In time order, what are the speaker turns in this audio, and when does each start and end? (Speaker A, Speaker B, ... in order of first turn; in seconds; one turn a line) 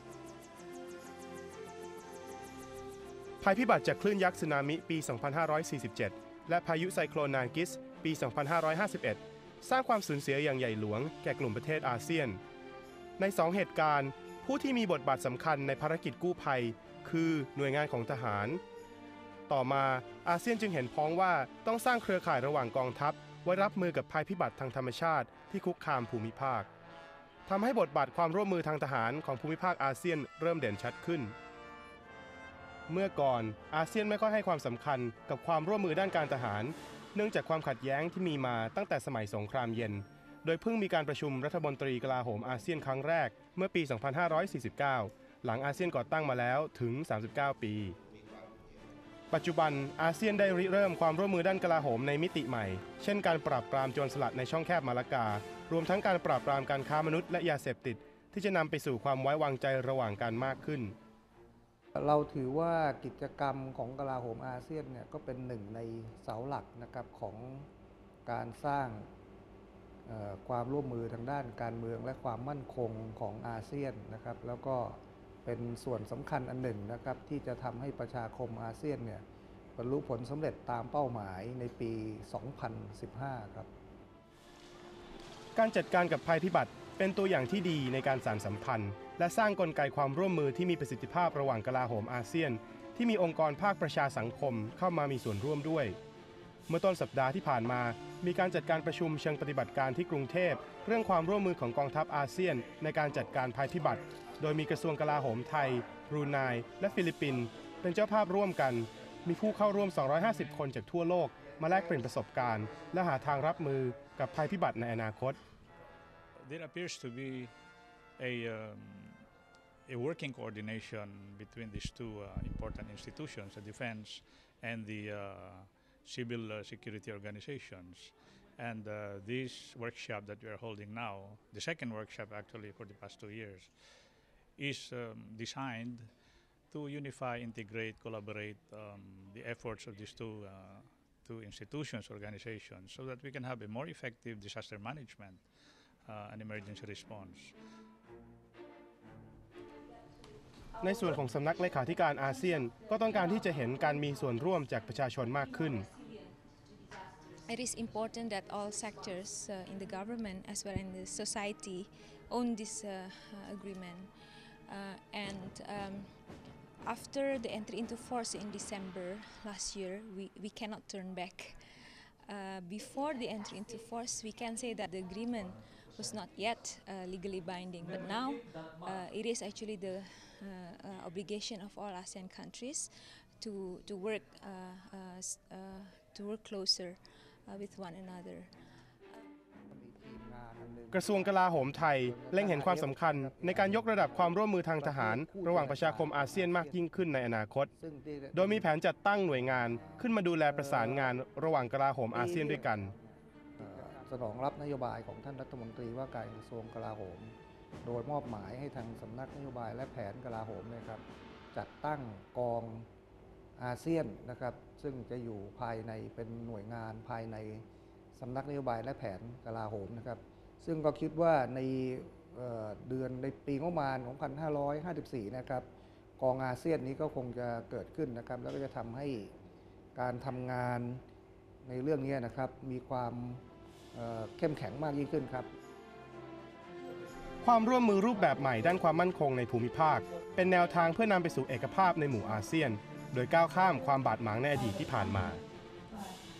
Speaker A: 3.4-12.4
Speaker A: 13.2-18.6
Speaker A: 19.5-26.7
Speaker A: 27.5-31.3
Speaker A: 32.9-48.0
Speaker A: 49.3-61.0
Speaker B: 62.0-67.7
Speaker B: 68.3-69.1
Speaker B: 70.1-79.2
Speaker B: 79.8-83.7
Speaker A: 85.6-96.0
Speaker A: 96.7-115.4
Speaker C: 116.4-117.5
Speaker C: 118.2-119.2
Speaker C: 119.9-133.7
Speaker C: 134.6-136.1
Speaker C: 136.7-145.4
Speaker C: 146.1-147.6
Speaker D: 150.7-164.1
Speaker A: 150.8-155.9
Speaker D: 164.7-166.1
Speaker D: 166.8-188.5
Speaker B: 189.7-196.8
Speaker A: 190.9-197.7
Speaker B: 197.8-198.7
Speaker A: 198.3-202.9
Speaker B: 199.7-201.2
Speaker B: 202.1-203.0
Speaker B: 203.6-212.9
Speaker B: 213.6-217.6
Speaker B: 218.2-225.7
Speaker B: 226.2-229.3
Speaker B: 229.9-231.0
Speaker B: 231.6-233.4
Speaker B: 233.9-235.5
Speaker A: 237.4-245.4